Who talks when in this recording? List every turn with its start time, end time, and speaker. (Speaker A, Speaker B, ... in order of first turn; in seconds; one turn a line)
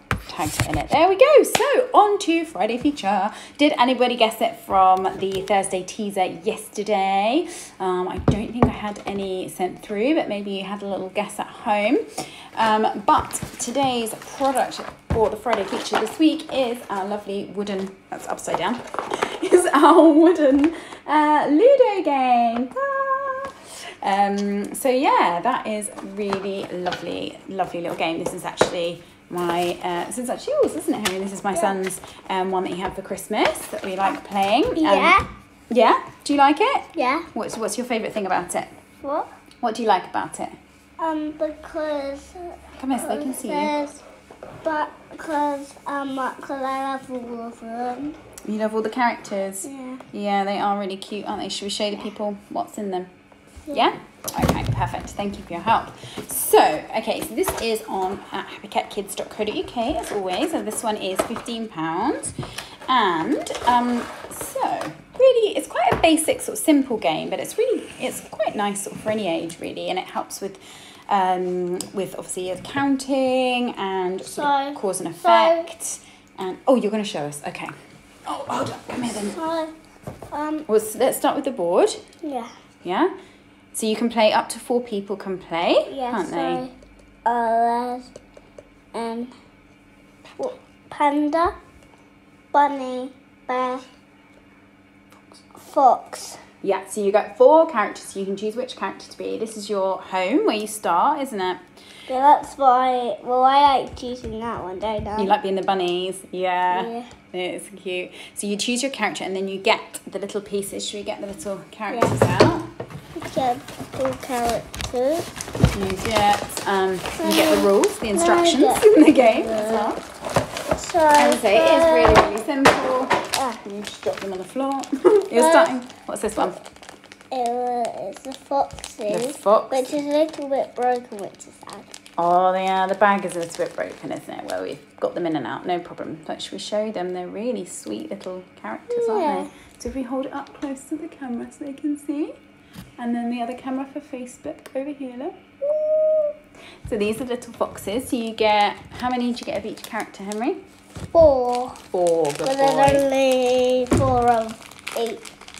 Speaker A: 0.3-35.2
Speaker B: 34.8-35.2
Speaker A: 35.7-38.7
Speaker B: 36.9-37.3
Speaker B: 39.0-39.3
Speaker A: 39.6-40.5
Speaker B: 41.0-44.0
Speaker A: 42.7-43.7
Speaker B: 44.6-48.2
Speaker A: 48.4-53.1
Speaker B: 49.6-50.0
Speaker A: 53.7-62.3
Speaker A: 62.9-77.7
Speaker B: 74.2-75.7
Speaker A: 78.2-79.4
Speaker B: 79.2-79.7
Speaker B: 80.3-80.7
Speaker A: 80.7-82.0
Speaker B: 82.2-82.5
Speaker A: 82.8-83.1
Speaker A: 83.7-86.6
Speaker B: 85.9-86.7
Speaker B: 87.2-88.1
Speaker B: 88.9-89.3
Speaker B: 90.3-91.5
Speaker B: 92.5-93.8
Speaker B: 95.6-96.4
Speaker A: 96.6-101.6
Speaker B: 102.1-105.3
Speaker A: 105.2-112.7
Speaker B: 106.7-107.1
Speaker B: 111.9-112.2
Speaker B: 113.2-115.3
Speaker A: 115.7-120.0
Speaker B: 117.2-120.0
Speaker B: 120.7-122.4
Speaker A: 121.2-126.6
Speaker B: 123.3-123.6
Speaker B: 125.3-125.8
Speaker B: 127.3-131.9
Speaker A: 129.1-130.0
Speaker A: 132.2-142.4
Speaker B: 138.9-139.5
Speaker A: 143.0-146.3
Speaker A: 146.8-150.6
Speaker B: 151.1-151.8
Speaker A: 151.9-153.0
Speaker B: 152.4-155.2